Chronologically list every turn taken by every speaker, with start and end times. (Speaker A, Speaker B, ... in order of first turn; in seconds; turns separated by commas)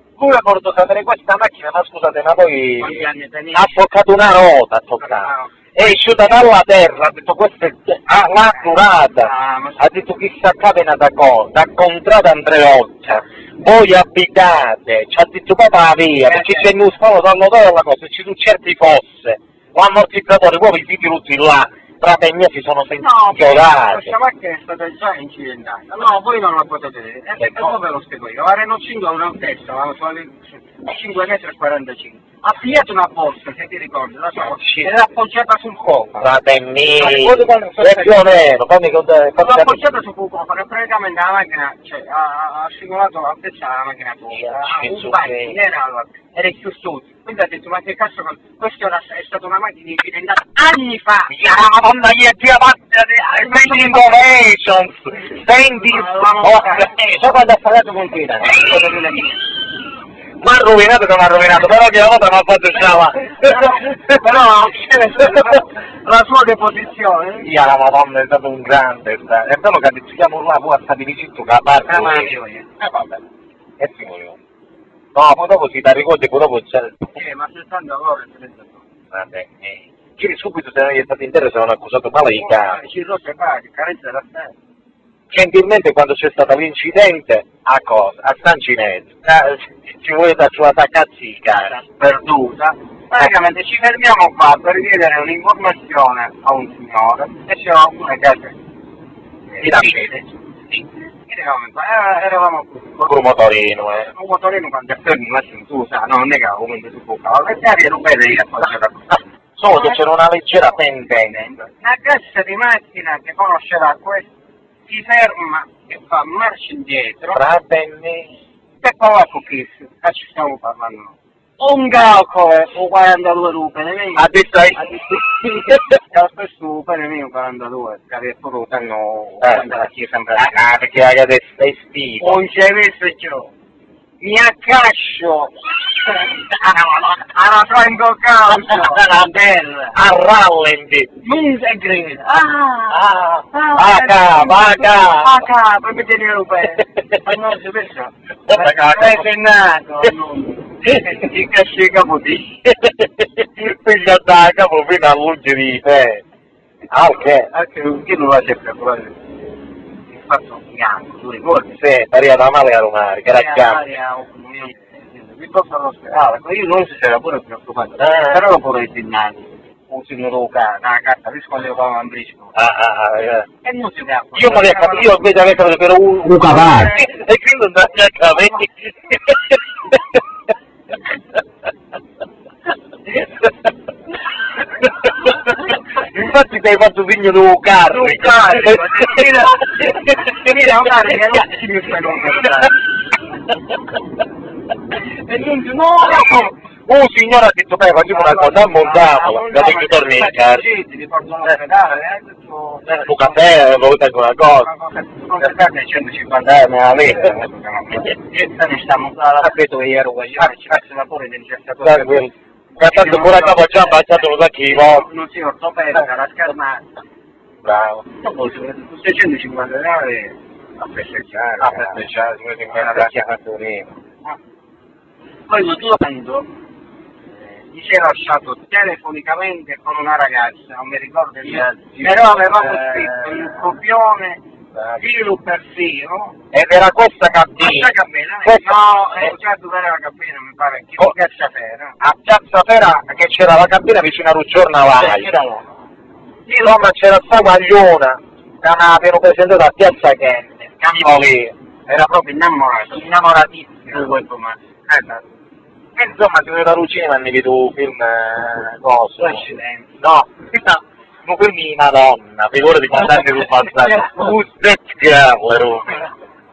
Speaker A: 0.2-24.1, Speaker B: 2.8-3.8, Speaker B: 5.0-6.0, Speaker B: 8.5-9.9, Speaker B: 16.2-16.7, Speaker B: 23.0-36.3, Speaker A: 27.4-27.7, Speaker A: 34.4-34.9, Speaker A: 36.2-39.8, Speaker B: 36.9-38.2, Speaker B: 39.4-51.4, Speaker A: 44.3-45.5, Speaker A: 51.3-57.8, Speaker B: 53.3-54.1, Speaker B: 55.7-57.0, Speaker B: 57.6-59.4, Speaker A: 60.4-63.8, Speaker B: 63.2-67.5, Speaker A: 67.4-73.2, Speaker B: 71.9-72.7, Speaker A: 73.8-74.3, Speaker A: 75.1-77.0, Speaker B: 77.1-78.8, Speaker A: 79.1-82.8, Speaker B: 82.3-84.5, Speaker A: 85.3-91.8, Speaker B: 91.5-98.5, Speaker B: 99.5-103.1, Speaker A: 99.6-100.1, Speaker A: 103.0-104.1, Speaker B: 104.1-110.0, Speaker A: 109.6-111.4, Speaker B: 111.2-114.3, Speaker B: 114.9-117.4, Speaker A: 117.3-118.3, Speaker B: 118.8-130.5, Speaker A: 124.2-125.9, Speaker A: 129.4-129.8, Speaker A: 130.3-132.4, Speaker B: 132.2-133.5, Speaker B: 134.2-140.0, Speaker A: 138.5-139.3, Speaker A: 139.9-141.1, Speaker B: 141.2-152.6, Speaker A: 142.9-145.4, Speaker A: 148.5-149.3, Speaker A: 152.7-156.2, Speaker A: 156.9-157.5, Speaker B: 157.1-159.1, Speaker B: 160.1-161.8, Speaker A: 161.7-163.8, Speaker B: 163.3-172.5, Speaker A: 168.0-168.4, Speaker A: 172.5-173.4, Speaker B: 173.4-175.2, Speaker A: 174.3-179.6, Speaker B: 176.3-177.1, Speaker A: 185.9-189.3, Speaker B: 187.9-192.8, Speaker B: 195.2-196.5, Speaker A: 196.9-200.6, Speaker B: 198.1-203.5, Speaker A: 202.9-204.7, Speaker B: 204.6-212.2, Speaker A: 211.8-215.1, Speaker B: 212.8-216.8, Speaker A: 217.6-218.0, Speaker B: 218.1-222.0, Speaker A: 221.6-223.8, Speaker B: 222.7-224.4, Speaker B: 225.5-226.4, Speaker B: 227.4-234.4, Speaker A: 231.5-233.2, Speaker B: 234.9-236.4, Speaker A: 236.5-237.9, Speaker B: 237.6-241.9, Speaker A: 238.4-239.3, Speaker A: 242.0-245.3, Speaker B: 244.9-245.6, Speaker A: 246.5-251.5, Speaker B: 250.8-251.3, Speaker B: 251.9-255.2, Speaker A: 255.9-266.1, Speaker B: 259.2-259.9, Speaker B: 263.7-264.4